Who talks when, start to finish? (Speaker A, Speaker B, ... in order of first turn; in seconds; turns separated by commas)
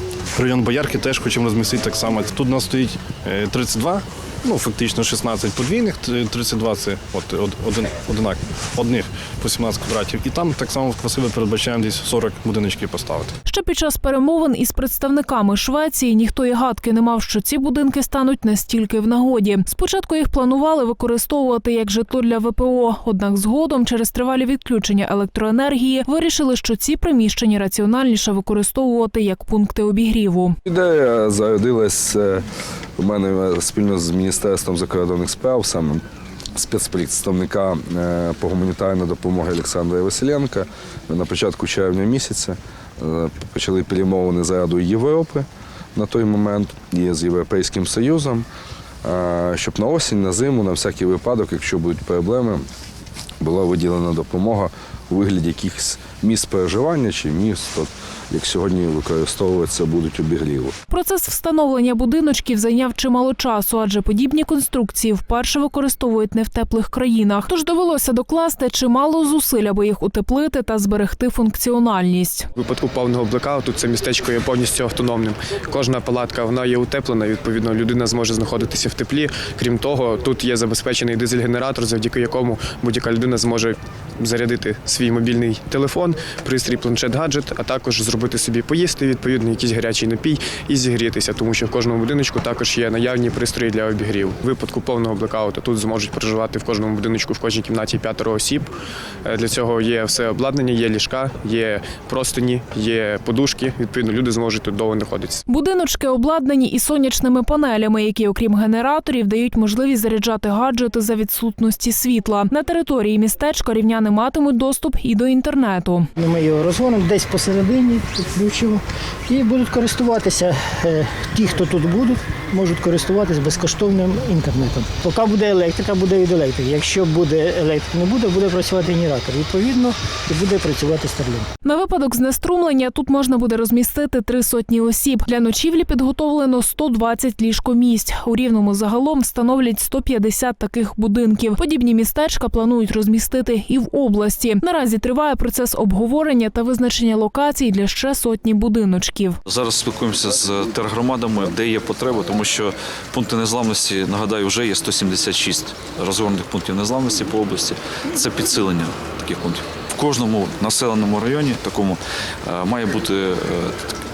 Speaker A: 0.3-13.4, Speaker B: 13.4-30.6, Speaker C: 30.6-32.4, Speaker C: 33.0-36.0, Speaker C: 36.5-48.5, Speaker C: 49.0-52.6, Speaker C: 53.4-60.7, Speaker B: 60.9-72.5, Speaker D: 72.5-98.7, Speaker D: 99.2-105.4, Speaker B: 105.5-116.1, Speaker E: 116.2-131.4, Speaker B: 131.6-149.4, Speaker F: 149.4-163.8